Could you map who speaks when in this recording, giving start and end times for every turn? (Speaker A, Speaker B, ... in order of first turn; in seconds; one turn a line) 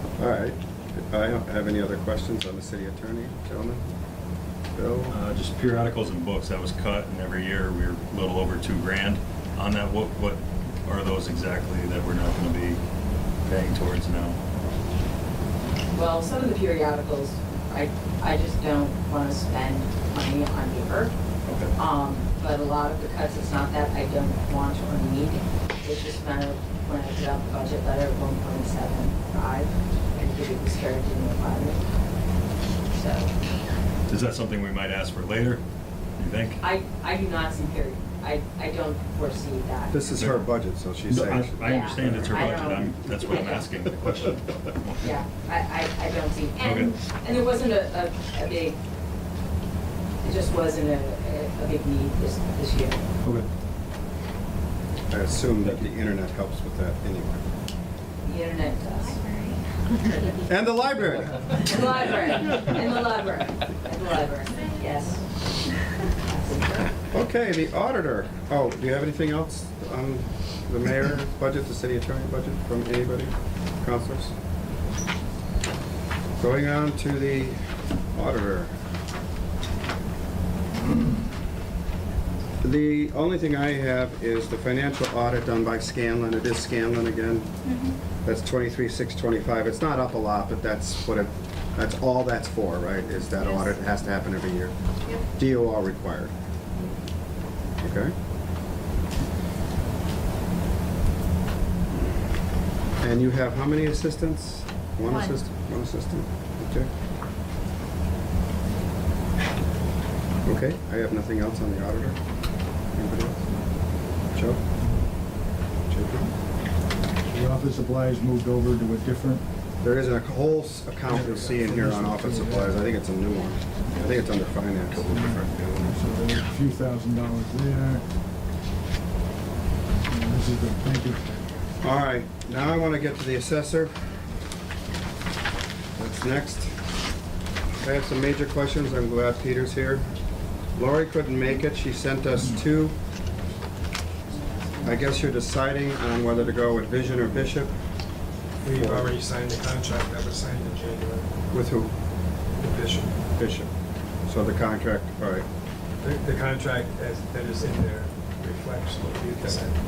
Speaker A: 0.2-3.9
Speaker A: 4.7-5.2
Speaker B: 5.1-12.8
Speaker B: 13.4-14.4
Speaker C: 15.9-21.1
Speaker B: 21.5-21.7
Speaker C: 21.8-31.8
Speaker C: 32.9-33.3
Speaker B: 34.1-35.6
Speaker B: 36.2-36.6
Speaker C: 36.6-40.0
Speaker A: 39.9-42.3
Speaker B: 40.1-40.5
Speaker B: 41.1-45.1
Speaker C: 41.6-43.7
Speaker C: 45.0-48.8
Speaker B: 46.6-46.9
Speaker C: 50.2-53.0
Speaker A: 55.1-57.4
Speaker C: 58.2-59.2
Speaker D: 59.0-60.2
Speaker C: 60.0-60.4
Speaker A: 60.4-61.7
Speaker C: 61.6-65.2
Speaker D: 64.6-65.2
Speaker C: 66.2-66.9
Speaker A: 67.1-74.3
Speaker A: 76.4-77.6
Speaker A: 78.2-78.7
Speaker A: 82.6-87.5
Speaker D: 87.7-87.9
Speaker A: 88.2-96.3
Speaker A: 97.8-98.2
Speaker A: 103.0-106.9
Speaker A: 110.5-112.2
Speaker A: 112.9-113.4
Speaker A: 114.3-114.6
Speaker A: 115.9-116.3
Speaker E: 117.3-119.5
Speaker A: 119.8-125.0
Speaker E: 121.1-122.8
Speaker B: 123.9-124.2
Speaker B: 124.9-125.9
Speaker E: 125.1-128.0
Speaker E: 130.1-131.4
Speaker A: 131.8-133.9
Speaker A: 136.0-136.8
Speaker A: 137.8-140.1
Speaker A: 140.8-143.0
Speaker C: 144.3-145.1
Speaker A: 144.8-147.7
Speaker F: 148.6-151.3
Speaker A: 148.7-149.1
Speaker A: 151.5-151.9
Speaker F: 152.6-153.1
Speaker A: 153.3-153.7
Speaker A: 154.3-155.5
Speaker F: 156.0-159.7